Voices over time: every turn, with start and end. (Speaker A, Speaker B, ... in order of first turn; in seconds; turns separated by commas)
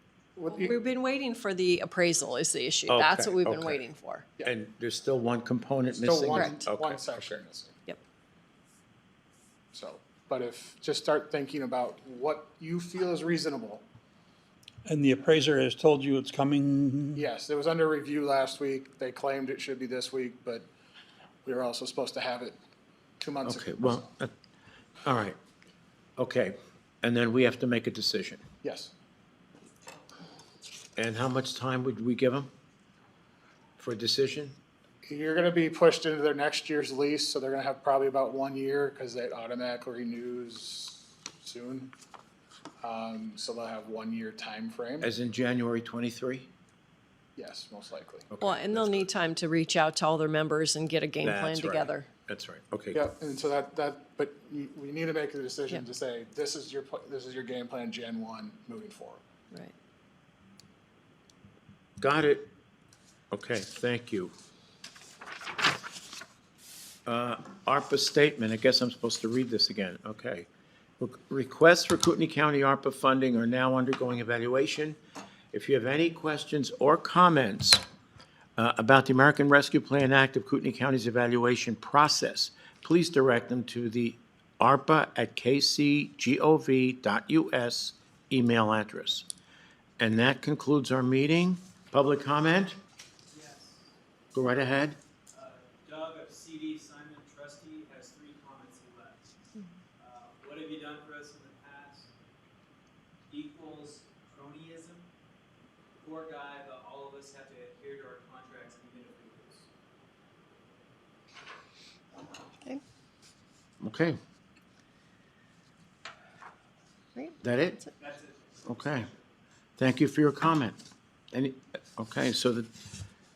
Speaker A: 0.4-0.8, Speaker B: 0.5-4.3, Speaker C: 2.9-3.8, Speaker C: 4.4-7.4, Speaker A: 6.0-7.8, Speaker A: 9.7-13.8, Speaker D: 14.8-17.3, Speaker A: 17.2-20.7, Speaker A: 21.4-22.6, Speaker A: 23.2-24.1, Speaker C: 23.4-24.3, Speaker C: 25.1-25.4, Speaker C: 26.2-28.4, Speaker A: 28.6-28.9, Speaker C: 31.0-32.5, Speaker C: 33.8-34.6, Speaker A: 35.1-41.9, Speaker A: 42.8-45.1, Speaker C: 45.0-46.5, Speaker A: 47.4-48.3, Speaker C: 48.3-49.1, Speaker B: 48.4-52.1, Speaker C: 51.2-53.0, Speaker A: 52.9-59.2, Speaker C: 62.0-62.5, Speaker C: 63.3-64.3, Speaker C: 67.1-75.0, Speaker C: 75.5-77.8, Speaker C: 78.6-89.3, Speaker C: 90.0-92.8, Speaker E: 93.3-93.9, Speaker C: 94.3-95.0, Speaker E: 95.3-99.3, Speaker E: 100.0-102.1, Speaker E: 103.3-105.1, Speaker E: 106.0-109.7, Speaker C: 113.8-114.2, Speaker C: 117.4-117.8, Speaker E: 118.0-118.6, Speaker C: 118.7-119.1, Speaker C: 119.8-120.8, Speaker C: 121.3-122.7